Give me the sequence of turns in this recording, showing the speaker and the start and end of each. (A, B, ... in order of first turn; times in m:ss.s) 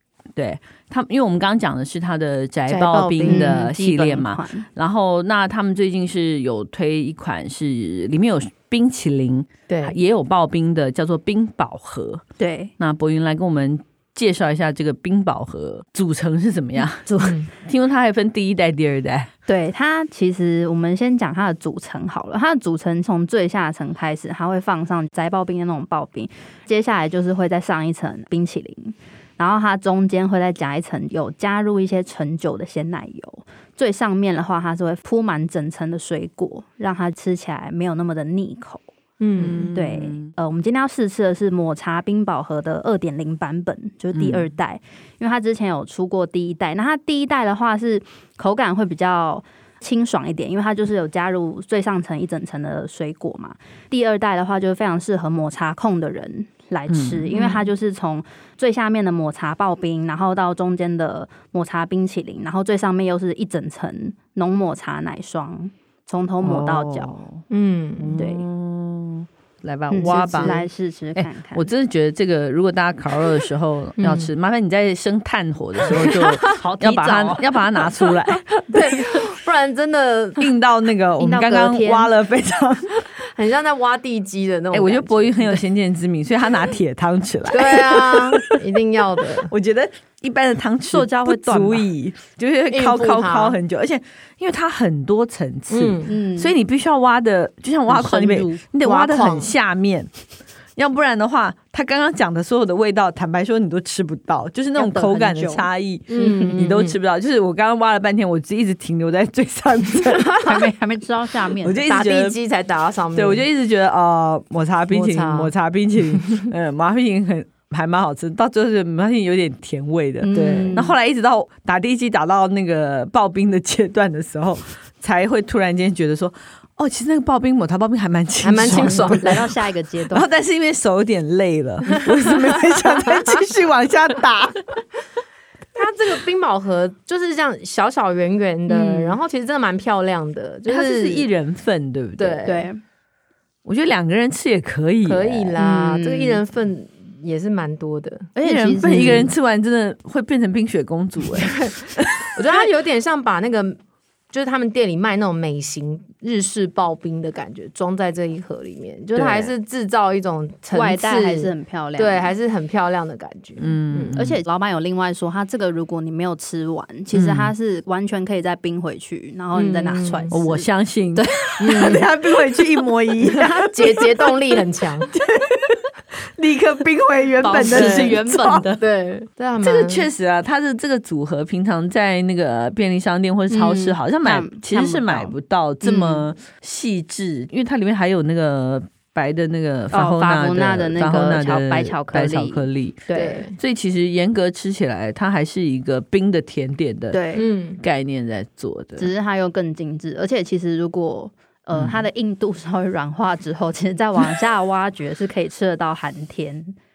0:00.4-0:12.2 A
0:02.7-0:03.6 B
0:03.2-0:04.7 C
0:09.7-0:10.0 B
0:12.4-0:12.7 C
0:12.8-0:19.3 A
0:17.2-0:17.5 B
0:19.5-0:38.9 C
0:39.2-0:39.7 B
0:39.4-0:40.3 A
0:39.7-1:07.2 C
0:44.2-0:44.5 A
0:56.9-0:57.3 A
0:57.4-0:57.7 B
1:06.4-1:07.4 A
1:07.5-1:08.1 B
1:08.0-1:10.6 A
1:08.2-1:08.5 C
1:09.9-1:11.7 C
1:10.4-1:10.6 B
1:11.2-1:18.5 A
1:14.0-1:14.3 B
1:15.9-1:16.2 B
1:16.0-1:17.6 C
1:18.6-1:20.5 B
1:20.4-1:22.9 A
1:21.3-1:22.1 C
1:23.0-1:25.6 B
1:24.7-1:28.6 A
1:27.5-1:29.5 B
1:29.4-1:40.1 A
1:30.9-1:31.9 C
1:32.7-1:33.6 B
1:35.7-1:36.1 B
1:36.1-1:36.6 C
1:37.9-1:38.6 C
1:38.8-1:39.5 B
1:40.8-1:50.6 A
1:44.8-1:46.6 C
1:46.1-1:47.0 B
1:50.3-1:51.8 C
1:51.6-1:52.4 A
1:51.8-1:53.4 B
1:53.1-2:09.5 A
1:54.9-1:55.5 B
1:56.1-1:56.4 B
2:00.2-2:00.9 C
2:08.4-2:09.5 B
2:08.8-2:10.2 C
2:10.1-2:14.8 A
2:12.8-2:13.4 B
2:15.8-2:21.3 B
2:18.7-2:19.2 C
2:20.7-2:22.5 A
2:22.2-2:22.7 B
2:22.4-2:22.8 C
2:23.6-2:25.5 A
2:25.0-2:28.3 B
2:25.6-2:26.4 C
2:28.4-2:29.3 C
2:28.4-2:32.3 A
2:31.4-2:33.8 B
2:34.3-2:44.2 B
2:39.2-2:39.5 A
2:40.7-2:42.3 C
2:43.6-2:44.4 A
2:44.2-2:52.0 C
2:47.2-2:47.5 B
2:49.5-2:50.3 B
2:50.3-2:54.4 A
2:51.6-2:52.1 B
2:53.3-2:55.1 B
2:55.1-2:55.8 A
2:56.4-2:58.6 A
2:57.4-2:58.8 C
2:57.5-2:58.2 B
2:58.8-3:00.1 B
2:59.6-3:17.2 A
3:03.5-3:06.2 C
3:09.9-3:13.5 C
3:13.1-3:13.6 B
3:17.1-3:17.5 C
3:17.4-3:17.8 B
3:17.8-3:19.1 A
3:19.0-3:26.8 C
3:21.7-3:22.0 A